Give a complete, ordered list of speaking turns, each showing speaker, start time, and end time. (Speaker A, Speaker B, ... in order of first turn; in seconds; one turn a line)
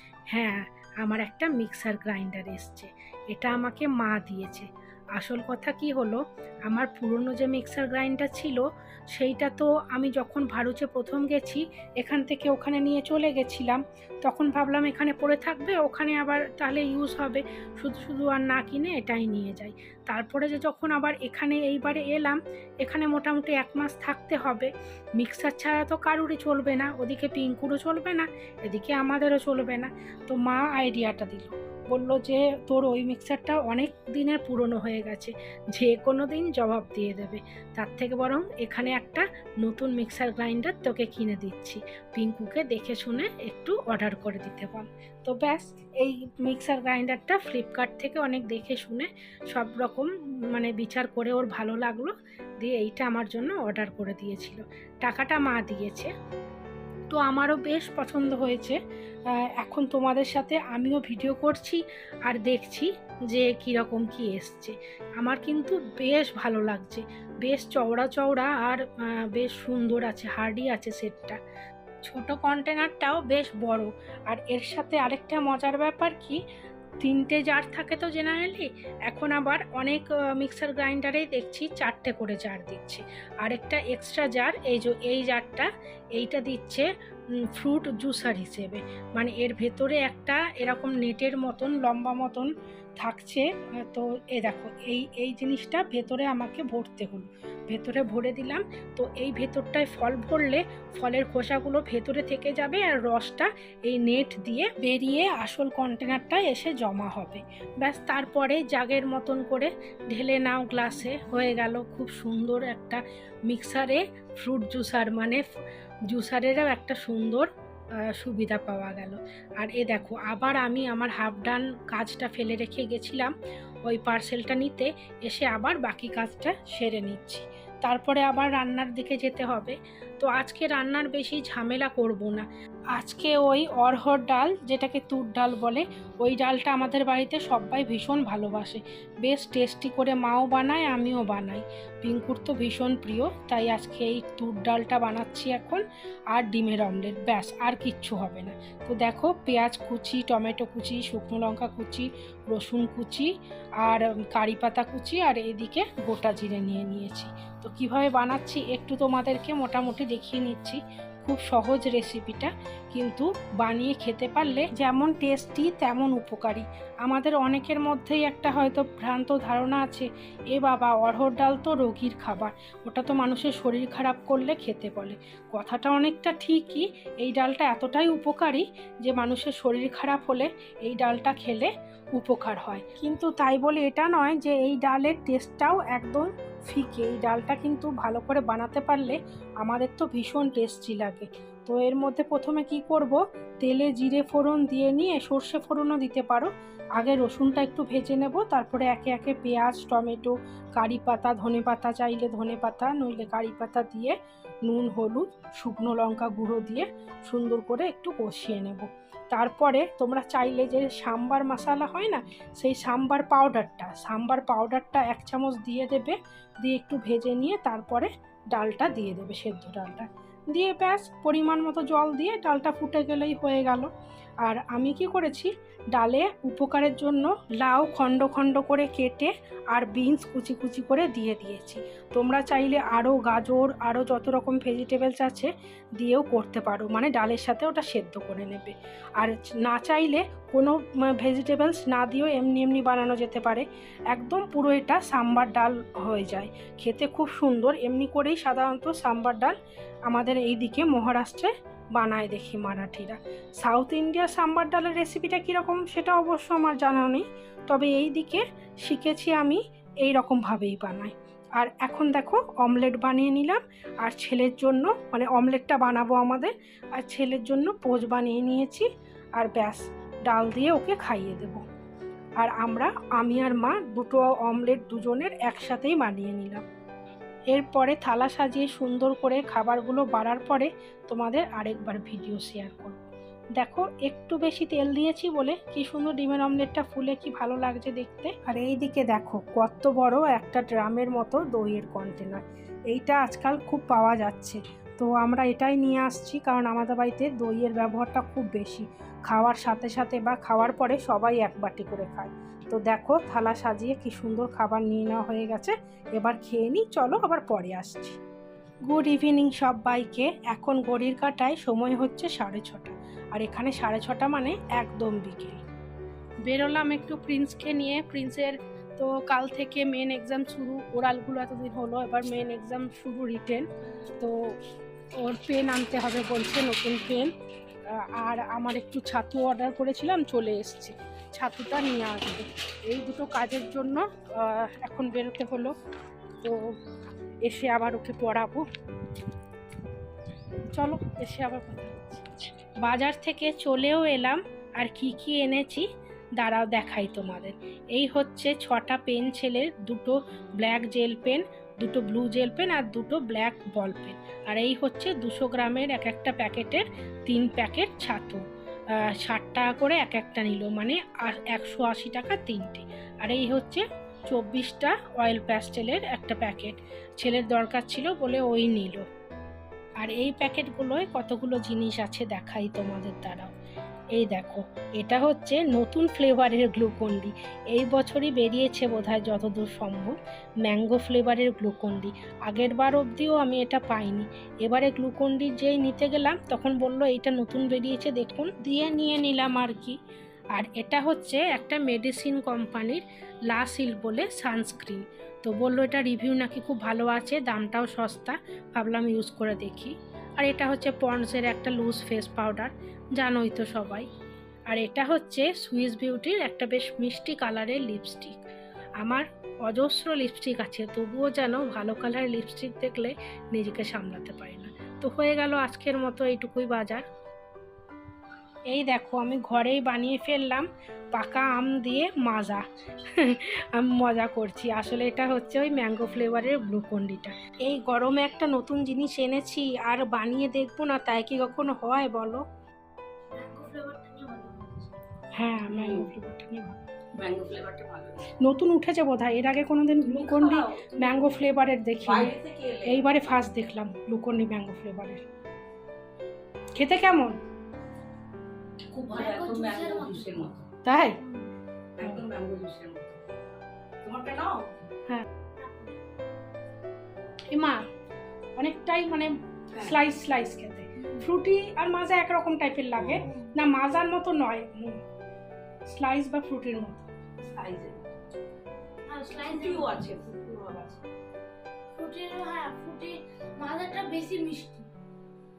Speaker A: 0.3-56.1
Speaker A: 57.1-58.8
Speaker A: 59.6-71.4
Speaker A: 72.0-76.4
Speaker A: 77.0-86.9
Speaker A: 87.5-92.5
Speaker A: 93.0-115.4
Speaker A: 116.1-117.5
Speaker A: 118.1-123.3
Speaker A: 123.8-223.9
Speaker A: 224.4-249.6
Speaker A: 250.1-271.6
Speaker A: 272.4-276.6
Speaker A: 277.5-283.0
Speaker A: 283.6-308.2
Speaker A: 308.9-315.6
Speaker A: 316.4-323.7
Speaker A: 325.2-327.3
Speaker A: 327.9-335.7
Speaker A: 336.4-336.7
Speaker A: 337.4-338.6
Speaker A: 340.7-345.9
Speaker A: 346.4-358.4
Speaker A: 359.1-369.0
Speaker A: 370.0-373.5
Speaker A: 374.1-390.0
Speaker A: 390.5-404.1
Speaker A: 404.7-408.4
Speaker A: 409.0-417.0
Speaker A: 418.7-432.4
Speaker B: 433.3-434.9
Speaker A: 435.3-436.8
Speaker C: 435.7-436.1
Speaker C: 437.2-438.3
Speaker A: 438.4-442.3
Speaker C: 440.0-441.2
Speaker C: 442.0-443.1
Speaker A: 442.9-445.2
Speaker A: 446.8-447.4
Speaker C: 448.9-450.7
Speaker B: 449.1-450.4
Speaker A: 450.8-451.2
Speaker B: 451.2-451.5
Speaker C: 452.0-453.2
Speaker C: 454.0-454.9
Speaker B: 455.6-455.9
Speaker A: 457.5-457.8
Speaker A: 458.6-465.0
Speaker A: 465.9-467.1
Speaker C: 467.6-468.1
Speaker B: 469.1-470.0
Speaker C: 469.4-471.0
Speaker B: 471.9-474.9